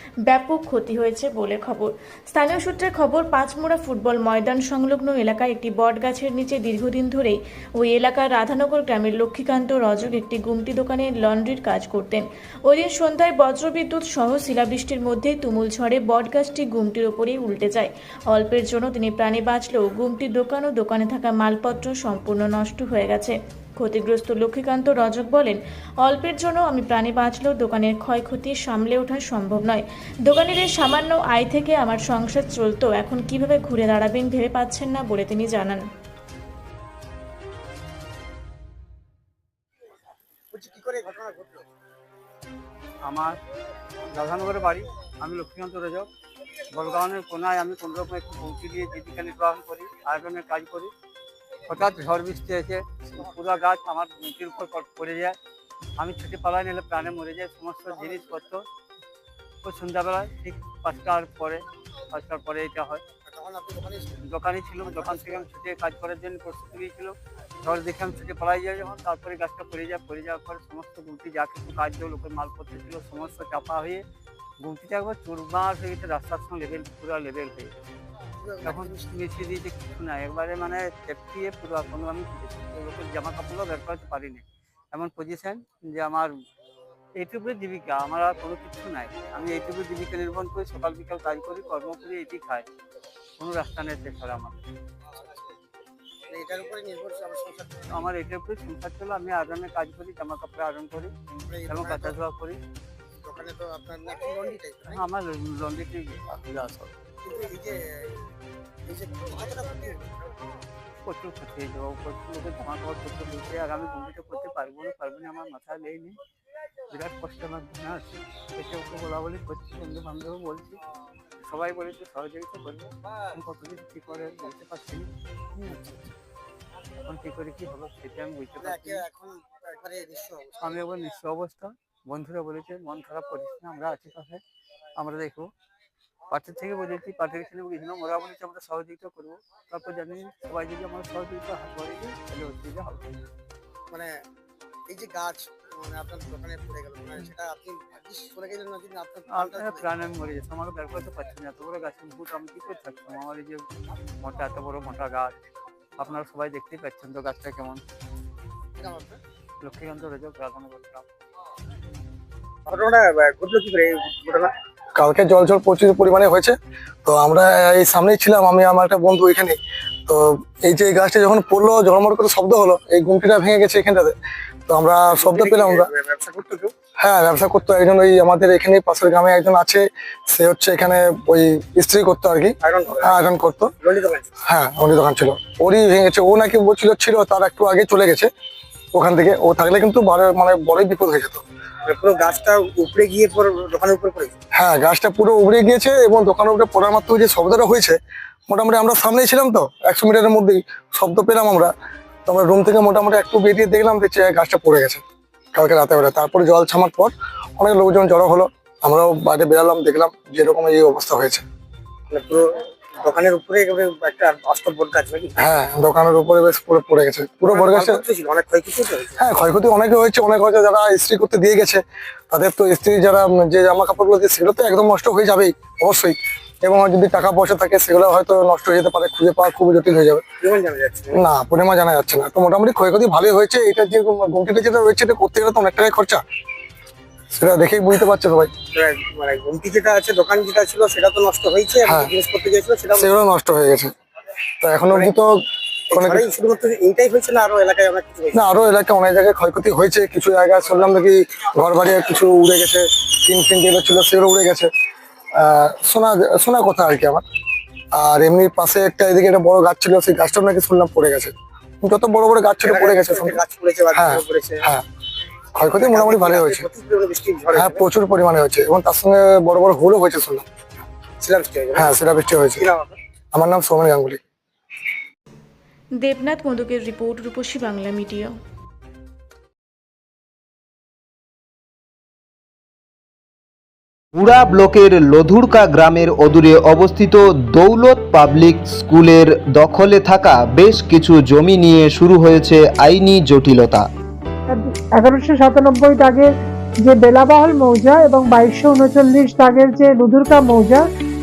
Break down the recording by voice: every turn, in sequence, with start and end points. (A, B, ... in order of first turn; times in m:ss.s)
0:00.2-0:35.8 A
0:40.5-0:41.6 B
0:43.0-0:43.4 C
0:44.1-0:46.1 C
0:46.7-0:50.9 C
0:51.7-0:55.4 C
0:53.1-0:53.6 B
0:56.0-0:58.6 C
0:57.9-0:58.3 B
0:59.6-1:03.0 C
1:03.2-1:04.2 B
1:04.2-1:14.0 C
1:04.8-1:05.5 B
1:14.6-1:17.8 C
1:18.4-1:19.2 B
1:18.6-1:26.3 C
1:27.2-1:32.6 C
1:33.4-1:34.6 C
1:36.3-1:38.1 B
1:37.9-1:41.1 C
1:41.5-1:42.2 B
1:41.7-1:42.6 C
1:43.2-1:45.0 B
1:44.9-1:46.9 C
1:47.2-1:48.2 B
1:48.9-1:50.1 B
1:51.0-1:56.2 C
1:56.9-2:00.8 C
2:01.4-2:06.1 C
2:07.0-2:09.0 C
2:08.6-2:10.8 B
2:10.6-2:14.4 C
2:15.0-2:15.5 C
2:16.3-2:23.1 C
2:24.9-2:29.8 B
2:29.3-2:33.6 C
2:34.2-2:35.3 C
2:36.0-2:37.8 C
2:38.8-2:39.2 B
2:39.6-2:41.0 C
2:42.6-2:44.5 B
2:45.0-2:54.2 D
2:54.7-2:55.9 D
2:55.2-2:56.7 B
2:57.0-3:03.7 D
3:02.6-3:03.2 B
3:03.8-3:04.3 B
3:04.4-3:08.3 D
3:08.9-3:11.4 D
3:11.8-3:14.3 B
3:14.5-3:18.0 D
3:18.5-3:21.7 D
3:22.2-3:25.0 D
3:25.5-3:31.4 D
3:32.1-3:35.4 B
3:35.4-3:38.0 D
3:37.5-3:39.2 B
3:39.2-3:50.2 D
3:50.4-3:51.2 B
3:51.1-3:56.2 D
3:57.3-3:58.5 D
3:58.7-4:03.1 B
4:03.0-4:03.9 D
4:04.6-4:05.4 D
4:05.9-4:08.4 B
4:05.9-4:06.2 D
4:08.3-4:14.7 D
4:15.4-4:17.2 D
4:17.9-4:23.4 D
4:22.6-4:24.6 B
4:23.9-4:24.8 D
4:25.6-4:26.6 D
4:25.8-4:27.8 B
4:27.5-4:30.4 D
4:31.2-4:32.0 B
4:31.7-4:32.6 D
4:32.6-4:33.0 B
4:33.3-4:34.2 D
4:36.0-4:38.3 A
4:44.2-4:53.8 E
4:54.5-4:56.3 F
4:56.8-5:00.8 F